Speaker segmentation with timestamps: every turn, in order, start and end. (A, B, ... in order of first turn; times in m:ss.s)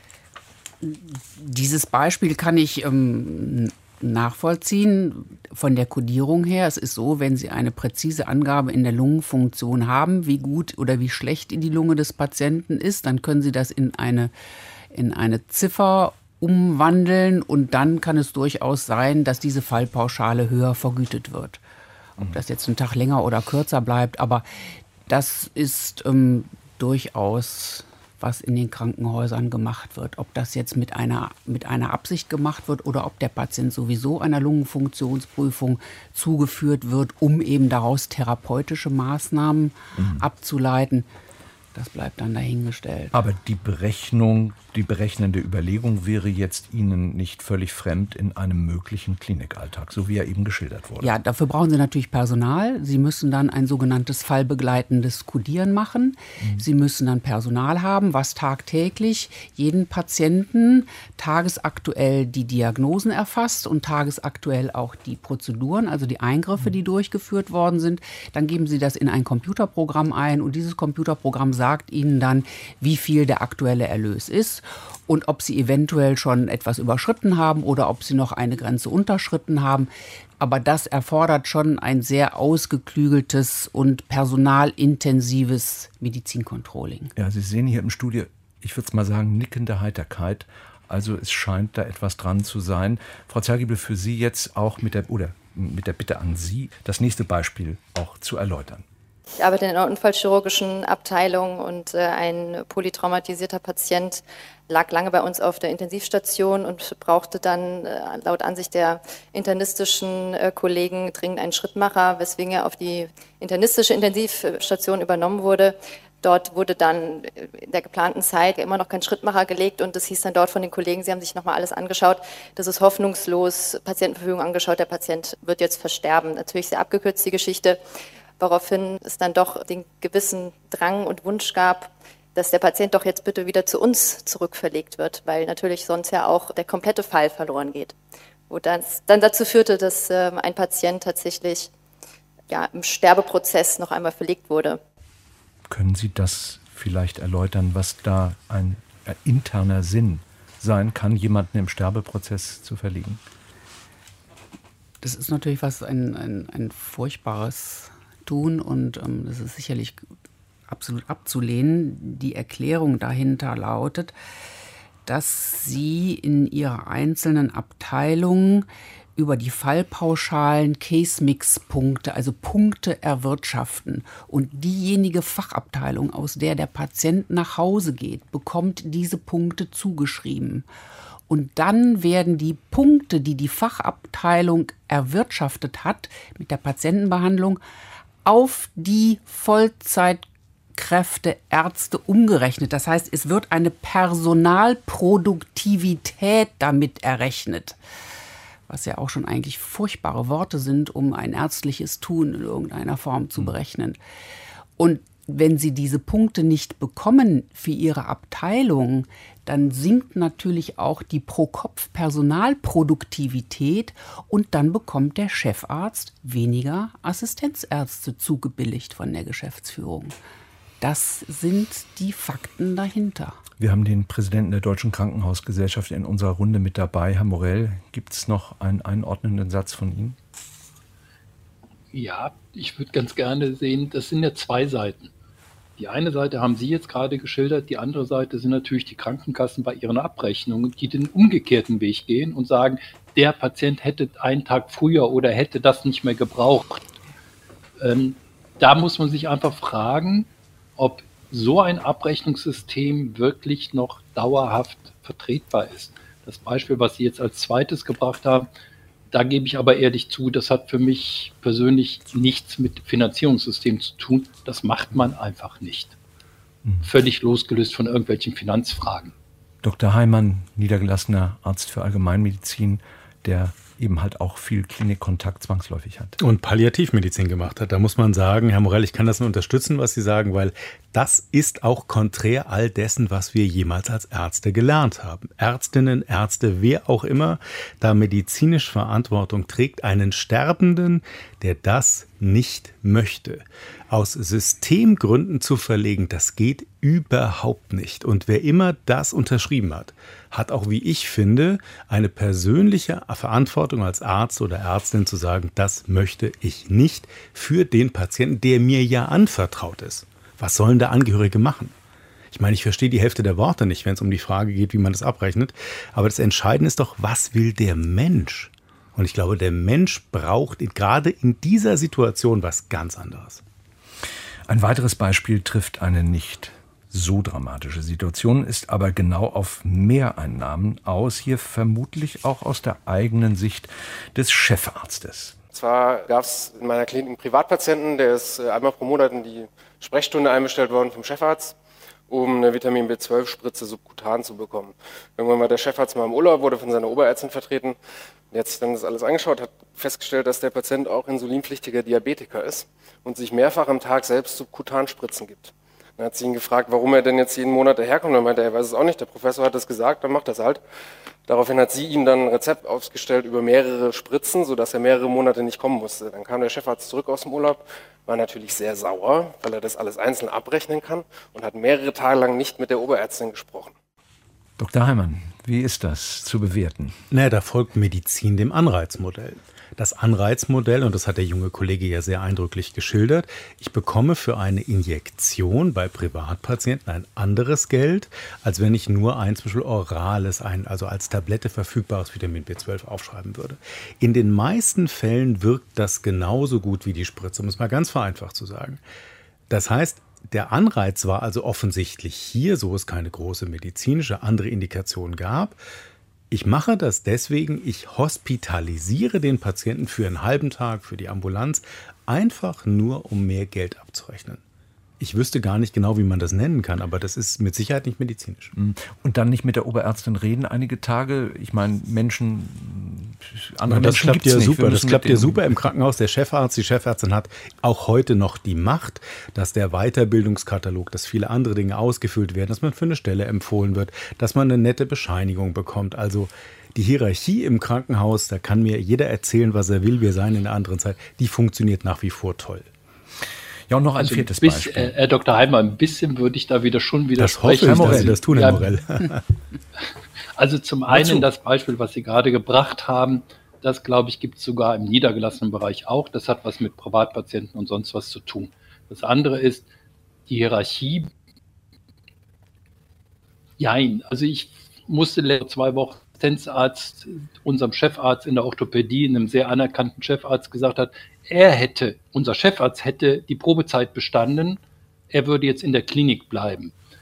0:00.8-0:14.3 A
0:14.9-0:21.6 A
0:22.3-0:24.4 A
0:25.1-0:41.1 A
0:40.0-0:40.2 B
0:41.7-0:43.1 A
0:43.1-0:51.1 B
0:51.0-1:27.1 A
1:27.2-1:38.8 B
1:39.4-2:07.8 C
2:08.4-2:17.9 C
2:18.5-2:21.7 C
2:22.5-2:24.8 C
2:25.7-2:33.2 B
2:35.0-2:40.0 A
2:40.7-2:44.1 A
2:45.0-3:00.6 A
3:01.3-3:07.6 A
3:08.2-3:17.8 A
3:18.7-3:24.0 A
3:24.8-3:40.1 A
3:40.8-3:43.4 A
3:43.6-3:50.2 B
3:51.9-3:55.1 D
3:55.8-4:06.9 D
4:07.8-4:18.5 D
4:19.1-4:26.0 D
4:26.8-4:29.1 D
4:29.6-4:36.2 B
4:36.2-5:11.7 E
5:12.3-5:23.4 E
5:24.5-5:35.4 B
5:35.5-5:41.6 F
5:42.1-5:47.8 F
5:48.3-6:00.6 F
6:01.3-6:13.7 F
6:14.6-6:17.0 B
6:17.1-6:38.8 E
6:39.5-6:45.6 E
6:46.3-6:54.4 E
6:55.0-6:58.5 E
6:58.5-7:05.5 B
7:03.6-7:22.7 E
7:23.7-7:24.9 B
7:24.0-7:28.7 D
7:27.2-7:29.2 E
7:27.6-7:28.2 B
7:30.4-7:39.7 D
7:30.9-7:31.2 B
7:40.3-7:41.1 D
7:43.6-7:56.7 D